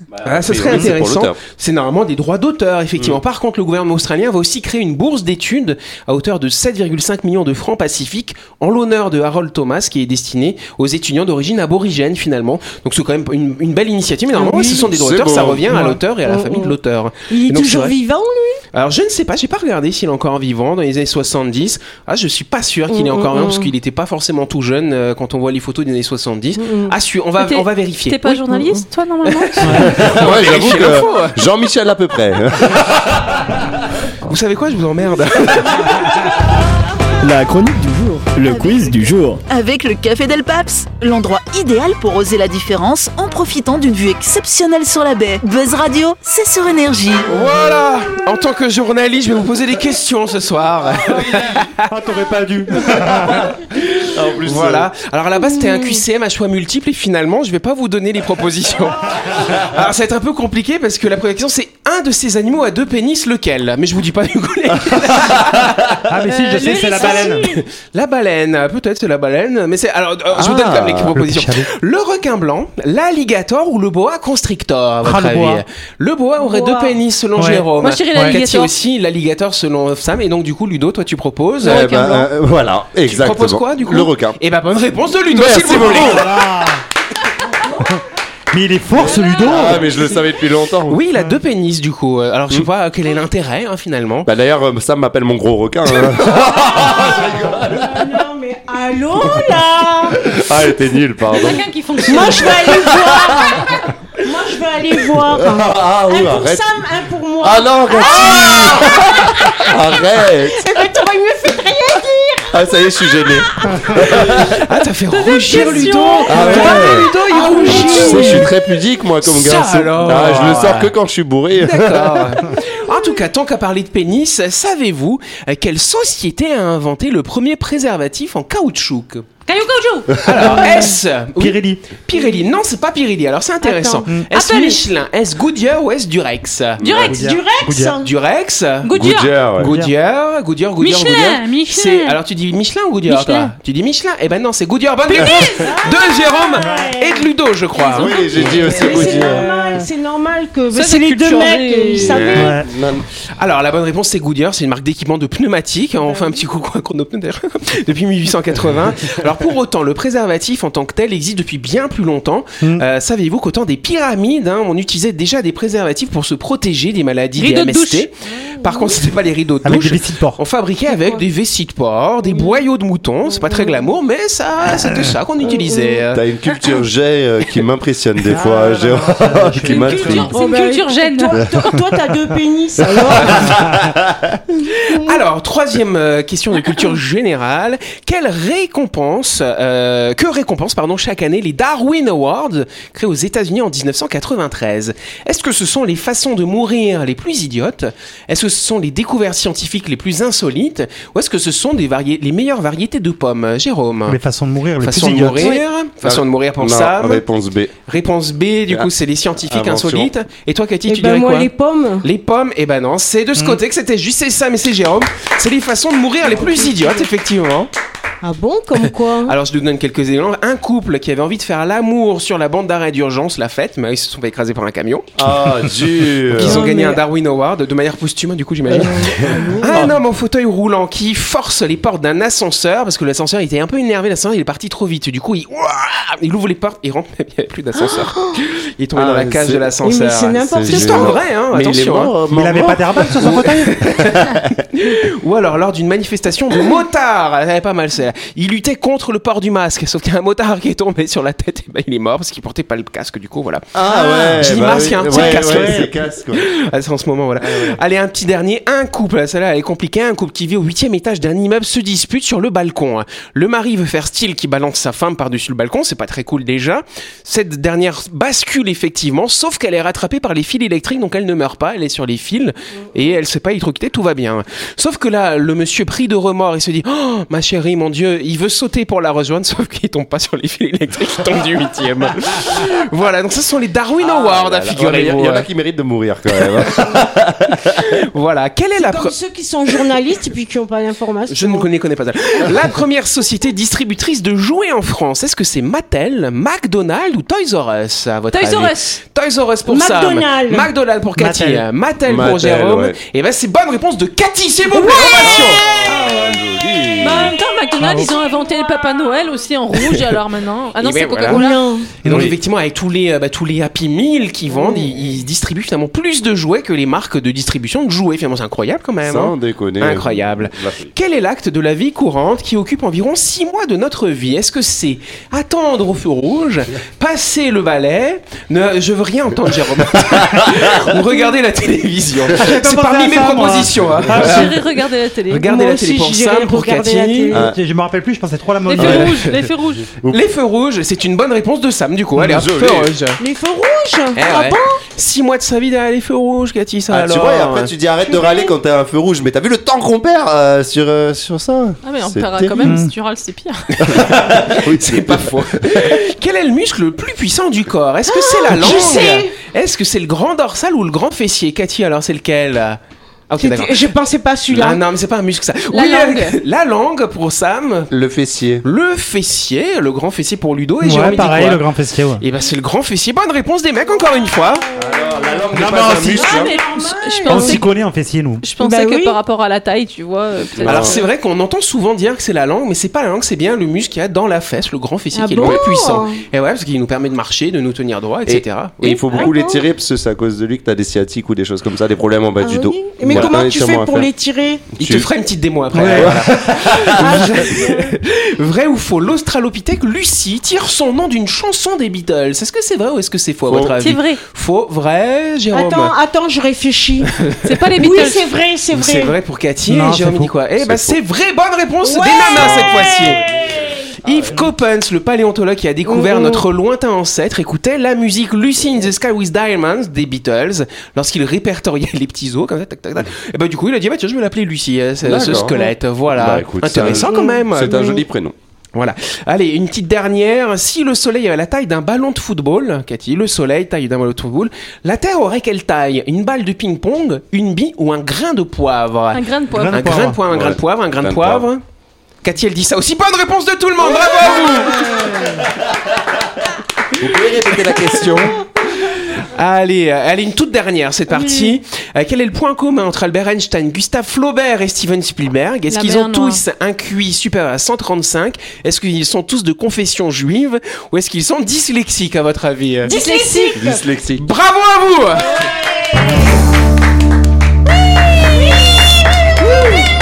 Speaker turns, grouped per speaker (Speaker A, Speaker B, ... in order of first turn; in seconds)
Speaker A: 0.1-1.4, 14.8-15.8, 29.8-33.7, 51.0-51.6, 52.9-53.5, 54.0-54.9, 65.2-66.0, 70.3-71.2, 81.6-84.4, 85.3-86.3, 89.0-91.0, 94.2-98.1, 100.2-103.8, 105.1-106.7, 107.4-110.7, 112.5-114.6, 116.3-117.1, 117.6-122.5, 136.8-137.2, 138.9-139.7, 147.9-149.5, 152.1-153.1, 176.1-180.3, 182.9-184.4, 206.0-207.7, 208.7-210.1, 225.2-226.7, 229.2-230.0, 238.9-239.7, 240.3-243.4, 244.0-244.5, 253.7-256.5, 257.4-257.8, 284.0-288.0, 302.1-303.0, 305.2-307.4, 312.0-312.4, 319.0-320.9, 330.0-330.8, 337.3-337.6, 338.8-339.1, 342.2-342.9, 346.9-352.8, 353.8-356.0, 367.9-368.6, 374.7-376.5, 380.5-381.0, 388.2-394.1, 394.8-395.1, 395.7-397.5, 403.5-403.7, 410.6-411.0, 412.3-414.4, 425.0-428.3, 440.2-441.5, 445.0-446.2, 447.0-448.4, 463.5-464.2
Speaker B: 0.2-17.9, 18.7-28.6, 29.2-31.4, 34.2-36.4, 47.3-51.9, 53.7-81.9, 83.0-86.3, 90.9-94.3, 114.2-118.5, 119.2-120.9, 121.5-129.3, 130.2-136.8, 138.0-138.9, 139.6-148.7, 153.4-176.2, 184.7-204.2, 204.8-207.2, 207.9-211.5, 212.0-217.7, 219.2-225.1, 226.3-242.1, 243.1-253.7, 254.4-285.5, 287.7-289.1, 291.3-305.6, 310.8-311.4, 312.0-334.6, 335.3-337.3, 340.1-343.2, 344.1-347.7, 353.8-363.9, 364.5-367.9, 368.6-371.6, 372.2-374.6, 380.6-389.1, 394.8-405.9, 407.1-407.5, 408.7-413.2, 414.0-428.0, 428.7-441.6, 442.2-445.3, 447.1-462.9, 464.1-465.4
Speaker C: 14.3-14.9, 16.2-16.7, 17.3-18.6, 22.9-23.7, 26.6-26.9, 55.4-56.0, 66.9-67.4, 76.4-77.0, 87.6-87.9, 89.1-90.1, 96.6-100.3, 102.1-109.7, 110.5-114.3, 115.4-118.5, 133.6-134.1, 137.1-138.1, 145.5-147.3, 148.4-152.6, 156.0-156.4, 168.4-169.0, 170.9-171.2, 172.2-172.6, 173.3-173.9, 175.4-176.0, 180.3-183.6, 184.6-185.2, 210.9-212.1, 216.3-217.1, 218.2-219.3, 226.4-227.0, 228.7-229.9, 237.8-238.4, 239.8-241.2, 288.8-291.7, 299.6-300.7, 304.7-305.4, 311.3-311.9, 314.5-314.9, 335.4-337.5, 343.2-344.8, 348.1-348.5, 358.1-359.3, 363.4-364.8, 374.7-375.4, 376.1-377.6, 378.6-379.2, 385.1-386.2, 389.1-389.6, 392.4-394.6, 396.9-397.9, 405.5-407.1, 407.8-409.1, 411.8-413.9, 415.9-416.4, 427.0-428.0, 444.0-445.1, 462.8-463.8, 465.4-466.1, 469.4-469.8
Speaker D: 15.7-16.0, 29.6-29.9, 51.9-53.5, 66.1-67.5, 71.2-71.7, 75.0-75.6, 77.3-78.3, 85.6-86.8, 88.5-90.0, 116.3-116.6, 130.4-130.8, 131.4-131.8, 137.1-138.0, 139.6-139.9, 146.6-146.9, 149.1-149.8, 152.3-152.7, 169.6-170.4, 178.2-180.3, 183.5-183.7, 204.1-205.6, 242.3-243.8, 255.2-255.6, 301.2-301.6, 307.8-308.1, 312.0-312.3, 332.3-334.6, 337.4-339.2, 352.6-352.9, 370.8-372.2, 375.5-376.3, 377.3-378.4, 395.7-396.2, 409.7-410.3, 439.6-440.1
Speaker E: 27.4-29.9, 66.3-67.4, 77.8-78.7, 81.6-82.3, 101.3-102.8, 115.1-118.4, 129.4-130.6, 134.3-134.8, 136.8-137.3, 138.8-139.5, 140.8-142.2, 143.1-143.5, 145.1-145.8, 147.8-149.1, 150.7-152.4, 167.4-168.1, 179.6-181.8, 298.3-299.0, 307.0-311.6, 334.2-335.5, 338.6-339.9, 351.8-353.7, 365.7-366.4, 376.1-377.7, 378.4-381.1, 403.8-404.2, 407.4-408.3, 439.1-440.0, 455.7-456.4, 462.8-463.6
Speaker F: 37.2-39.4
Speaker G: 38.4-47.3